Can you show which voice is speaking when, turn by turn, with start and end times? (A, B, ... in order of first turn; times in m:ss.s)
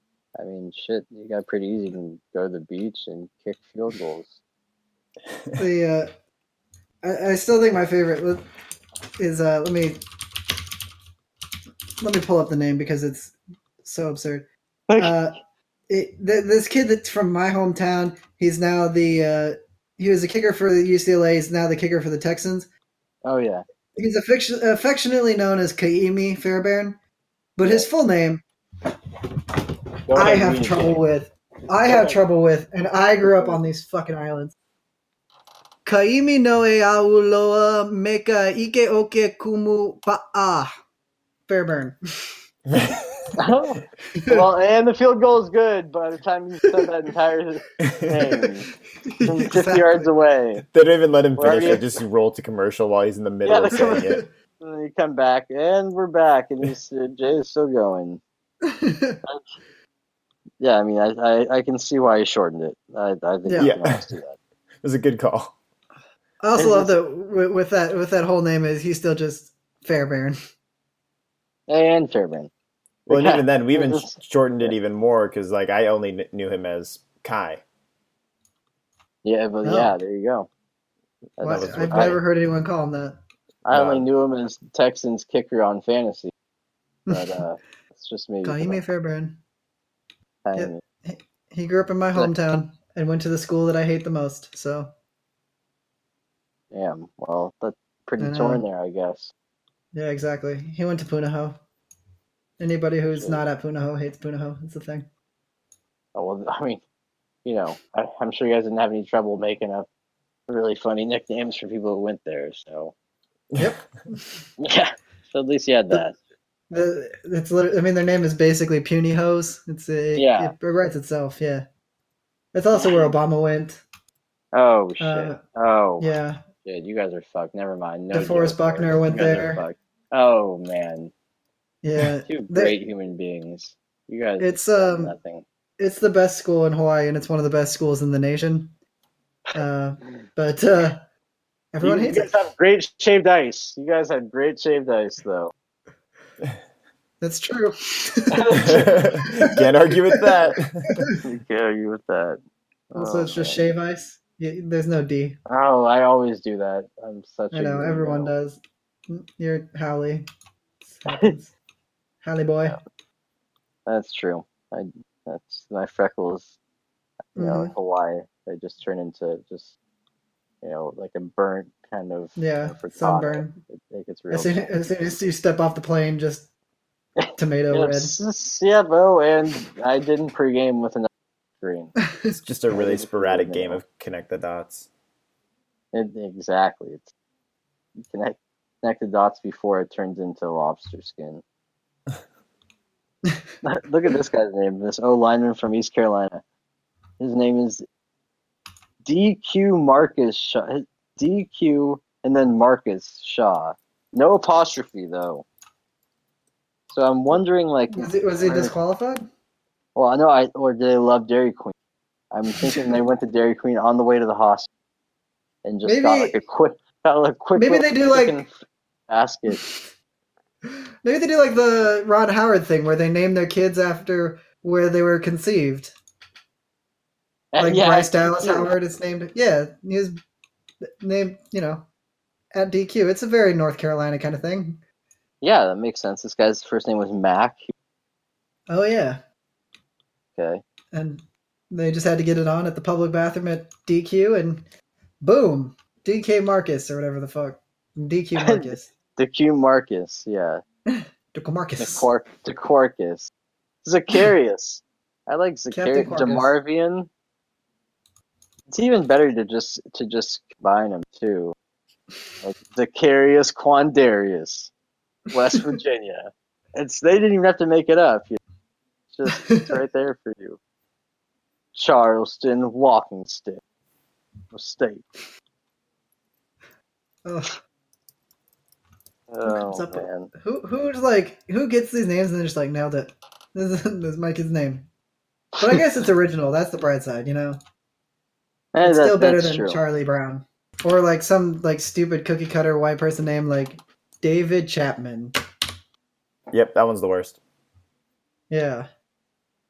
0:00.4-0:04.4 A
0:05.6-0:06.1 B
0:07.0-0:08.4 B
0:09.2-0:10.0 B
0:12.0-0:15.4 B
0:14.9-0:15.2 A
0:15.9-0:22.7 B
0:23.2-0:23.6 A
0:24.0-0:27.0 B
0:27.6-0:28.4 B
0:27.6-0:27.9 A
0:30.1-0:31.0 A
0:30.1-0:34.6 B
0:31.8-0:32.2 A
0:33.3-0:33.6 A
0:35.8-0:40.7 B
0:41.5-0:42.0 B
0:42.7-0:43.0 C
0:43.4-0:48.7 A
0:44.1-0:44.4 B
0:47.8-0:48.1 C
0:49.0-0:50.1 B
0:49.2-0:50.6 A
0:50.7-0:54.2 C
0:51.4-0:51.8 A
0:53.4-0:58.2 A
0:53.7-0:54.3 B
0:58.6-0:59.2 B
0:59.2-0:59.6 A
1:00.6-1:04.4 A
1:03.5-1:03.7 B
1:03.6-1:04.1 C
1:04.8-1:05.6 C
1:06.4-1:10.4 B
1:06.6-1:06.9 A
1:11.7-1:12.5 A
1:13.1-1:14.7 A
1:13.1-1:17.6 C
1:19.2-1:20.5 A
1:19.6-1:19.9 B
1:21.4-1:22.2 A
1:21.4-1:23.2 B
1:21.5-1:22.2 C
1:23.6-1:26.3 A
1:23.7-1:24.1 C
1:27.1-1:27.4 B
1:27.1-1:28.8 A
1:28.4-1:29.4 B
1:30.4-1:30.8 A
1:30.6-1:34.9 B
1:36.7-1:39.3 A
1:38.2-1:38.6 B
1:39.9-1:41.6 B
1:42.6-1:45.1 B
1:43.1-1:43.4 A
1:46.2-1:46.8 A
1:47.4-1:49.9 A
1:50.5-1:52.9 A
1:53.6-1:54.5 B
1:54.6-1:56.2 A
1:56.7-2:01.7 B
2:00.2-2:00.6 A
2:02.5-2:03.8 B
2:02.7-2:03.2 A
2:04.5-2:06.1 A
2:05.0-2:05.4 B
2:06.0-2:06.4 B
2:06.6-2:11.1 A
2:08.1-2:09.6 B
2:11.8-2:12.7 B
2:12.3-2:15.4 A
2:14.4-2:15.2 B
2:15.8-2:18.7 B
2:19.5-2:21.0 B
2:21.7-2:22.4 B
2:21.8-2:25.5 A
2:27.2-2:30.3 B
2:28.3-2:29.0 A
2:28.6-2:31.1 C
2:31.2-2:32.4 A
2:32.9-2:33.6 A
2:32.9-2:35.4 B
2:35.5-2:38.3 A
2:37.5-2:40.3 B
2:40.8-2:41.5 B
2:42.2-2:42.8 B
2:43.9-2:46.6 A
2:47.4-2:49.8 A
2:47.4-2:47.7 B
2:50.6-2:54.8 A
2:52.4-2:53.6 B
2:54.3-2:56.5 B
2:57.2-3:01.1 A
2:57.4-2:58.2 B
3:01.6-3:02.0 A
3:02.0-3:02.4 B
3:02.4-3:04.9 C
3:02.7-3:03.8 A
3:05.9-3:07.1 A
3:08.0-3:11.4 A
3:13.6-3:16.4 A
3:17.2-3:17.8 A
3:19.0-3:25.5 A
3:26.9-3:28.7 A
3:27.9-3:29.3 B
3:30.0-3:31.8 A
3:32.3-3:34.7 A
3:32.6-3:32.9 B
3:35.6-3:38.6 A
3:35.8-3:36.4 B
3:37.6-3:38.4 B
3:39.1-3:39.6 A
3:39.5-3:39.8 B
3:40.7-3:46.0 B
3:47.5-3:48.7 A
3:47.6-3:50.2 B
3:51.0-3:51.9 B
3:52.5-3:54.8 B
3:55.4-3:57.7 A
3:58.7-3:59.2 B
4:00.4-4:00.6 A
4:00.9-4:04.6 B
4:05.2-4:08.9 B
4:08.4-4:10.6 A
4:10.9-4:12.1 B
4:11.8-4:13.3 A
4:13.8-4:17.1 A
4:15.7-4:16.5 B
4:18.7-4:21.6 A
4:22.4-4:24.7 A
4:25.3-4:28.4 A
4:29.1-4:30.6 A
4:29.3-4:29.7 B
4:31.7-4:33.6 A
4:34.5-4:35.1 A
4:37.2-4:37.6 B
4:39.3-4:40.3 A
4:39.4-4:44.9 B
4:45.6-4:47.6 B
4:48.7-4:49.8 A
4:48.8-4:55.4 B
4:56.5-4:57.4 C
4:58.5-4:58.9 B